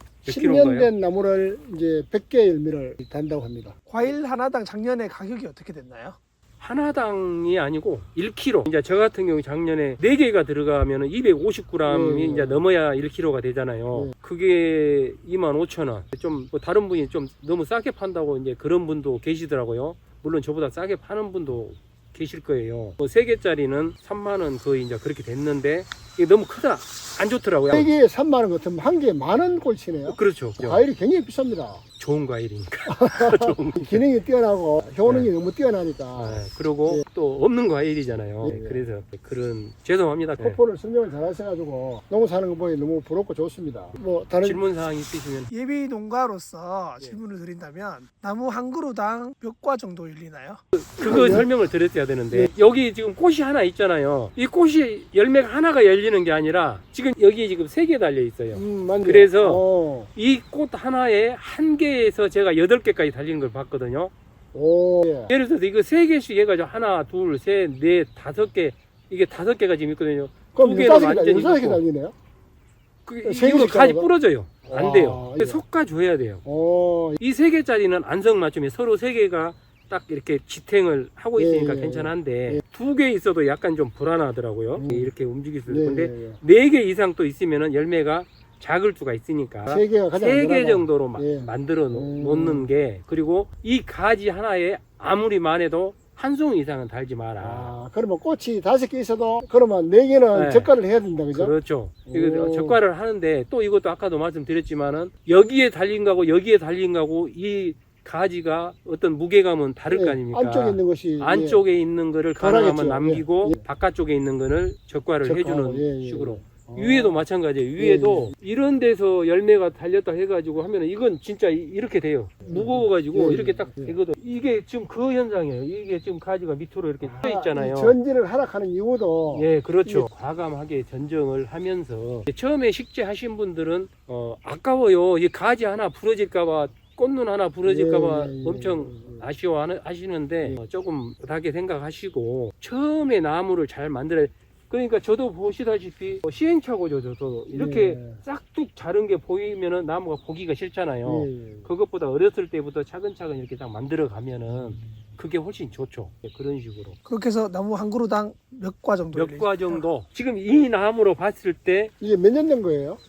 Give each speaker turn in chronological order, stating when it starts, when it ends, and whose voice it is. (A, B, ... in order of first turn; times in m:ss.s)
0:00.2-0:00.9 A
0:00.3-0:03.8 B
0:03.9-0:06.2 C
0:06.6-0:27.9 A
0:11.9-0:12.6 B
0:27.7-0:31.8 B
0:30.1-0:30.8 A
0:32.0-0:34.0 A
0:32.9-0:37.0 B
0:35.1-0:35.3 A
0:36.1-0:40.6 A
0:38.4-0:38.9 B
0:40.4-0:44.6 B
0:44.4-0:45.5 A
0:45.5-0:50.6 C
0:50.7-1:04.1 A
0:51.0-0:51.5 B
0:58.5-1:00.1 B
1:04.5-1:05.3 B
1:05.3-1:11.8 A
1:10.6-1:12.2 B
1:13.0-1:16.4 A
1:13.2-1:14.1 B
1:14.7-1:15.6 B
1:16.4-1:17.2 B
1:17.2-1:37.7 A
1:21.4-1:22.6 B
1:24.8-1:25.1 B
1:25.7-1:26.4 B
1:29.7-1:32.7 B
1:37.4-1:41.5 B
1:40.3-1:40.7 A
1:41.3-2:08.0 A
1:42.1-1:42.8 B
1:49.9-1:51.6 B
1:52.4-1:53.6 B
1:55.2-1:57.2 B
1:57.8-1:58.3 B
2:02.4-2:04.0 B
2:07.0-2:10.1 B
2:09.3-2:37.0 A
2:17.6-2:19.3 B
2:27.5-2:28.2 B
2:31.0-2:31.7 B
2:37.1-2:39.8 C
2:39.1-2:41.9 A
2:42.0-2:43.0 B